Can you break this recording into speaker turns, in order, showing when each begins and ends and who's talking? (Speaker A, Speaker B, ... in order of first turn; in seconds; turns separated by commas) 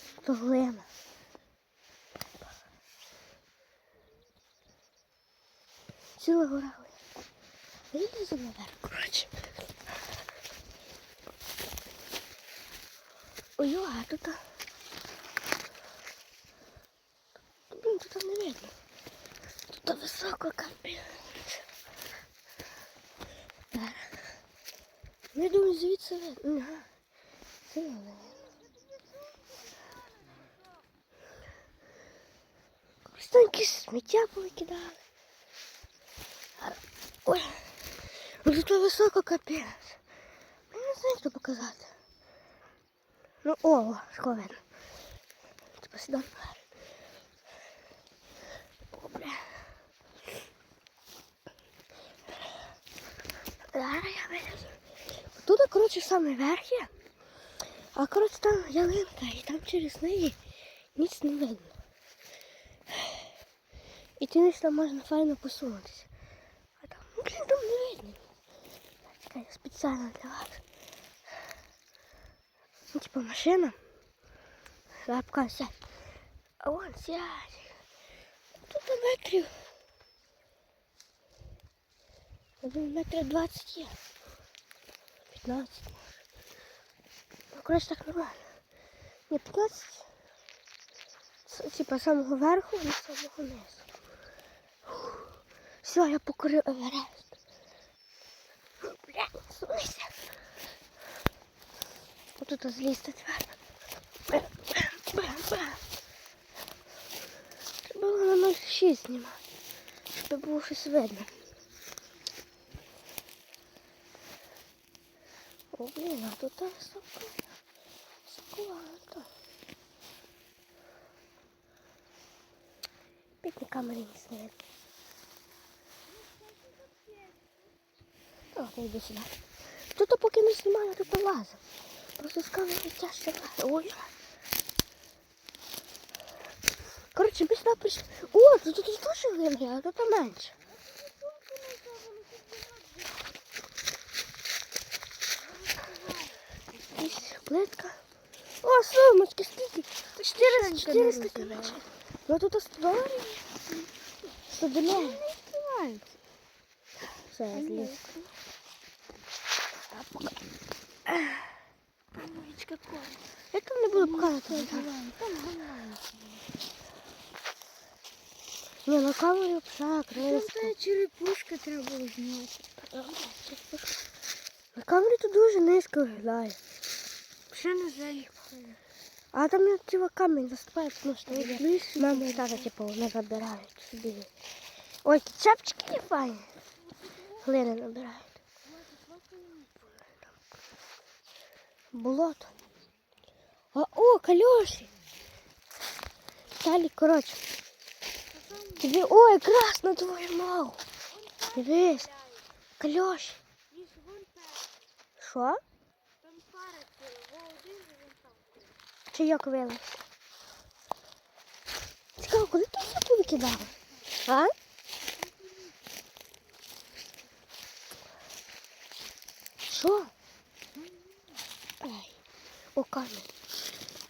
Speaker A: 0.2-0.8, Speaker A: 6.2-7.0, Speaker A: 7.9-9.3, Speaker A: 13.6-14.4, Speaker A: 17.7-18.7, Speaker A: 19.7-21.6, Speaker A: 23.7-24.2, Speaker A: 25.3-26.9, Speaker A: 27.7-28.5, Speaker B: 28.9-30.6, Speaker A: 33.1-35.0, Speaker A: 36.6-37.7, Speaker A: 38.3-40.0, Speaker A: 40.7-41.9, Speaker A: 43.4-44.6, Speaker A: 45.8-46.6, Speaker A: 48.9-49.5, Speaker A: 53.7-54.8, Speaker A: 55.4-56.9, Speaker A: 57.9-60.4, Speaker A: 61.0-61.7, Speaker A: 64.2-66.1, Speaker A: 66.8-68.2, Speaker A: 69.2-70.6, Speaker A: 72.9-73.8, Speaker A: 75.0-75.8, Speaker A: 76.6-77.7, Speaker A: 78.7-79.5, Speaker A: 82.6-83.9, Speaker A: 85.3-86.0, Speaker A: 87.5-88.5, Speaker A: 89.3-90.0, Speaker A: 91.5-93.8, Speaker A: 94.9-95.2, Speaker A: 95.8-97.3, Speaker A: 98.8-100.1, Speaker A: 102.4-103.5, Speaker A: 104.3-105.8, Speaker A: 107.8-109.4, Speaker A: 110.1-111.3, Speaker A: 115.7-117.3, Speaker A: 118.3-119.3, Speaker A: 123.4-124.5, Speaker B: 126.1-127.4, Speaker A: 128.5-129.3, Speaker A: 129.9-131.6, Speaker A: 132.2-134.1, Speaker A: 137.1-140.5, Speaker B: 140.8-143.4, Speaker B: 145.4-147.2, Speaker A: 146.9-148.0, Speaker A: 148.6-153.5, Speaker B: 150.2-151.8, Speaker B: 153.7-154.1, Speaker A: 154.5-155.2, Speaker B: 154.8-156.1, Speaker A: 157.3-158.0, Speaker B: 157.5-158.3, Speaker A: 159.9-160.3, Speaker A: 161.1-161.4, Speaker B: 162.1-163.2, Speaker A: 163.5-164.9, Speaker B: 163.9-166.5, Speaker A: 168.8-170.7, Speaker B: 170.1-173.1, Speaker A: 172.9-174.0, Speaker A: 174.7-176.6, Speaker B: 177.5-178.8, Speaker A: 179.3-184.3, Speaker B: 181.3-182.7, Speaker A: 185.0-186.5, Speaker B: 186.8-187.5, Speaker A: 187.4-188.3, Speaker B: 188.6-190.1, Speaker A: 191.9-192.5, Speaker A: 193.7-194.9, Speaker A: 196.6-197.4, Speaker B: 198.3-199.2, Speaker A: 198.8-200.8, Speaker B: 201.1-202.4, Speaker A: 201.5-202.1, Speaker A: 202.8-203.4, Speaker B: 203.7-204.8, Speaker A: 205.2-205.6, Speaker B: 206.2-208.8, Speaker A: 209.1-209.9, Speaker A: 212.2-213.7, Speaker A: 214.2-214.5, Speaker B: 215.0-215.9, Speaker A: 219.7-220.1, Speaker B: 220.8-221.1, Speaker A: 221.8-222.1, Speaker A: 222.8-223.3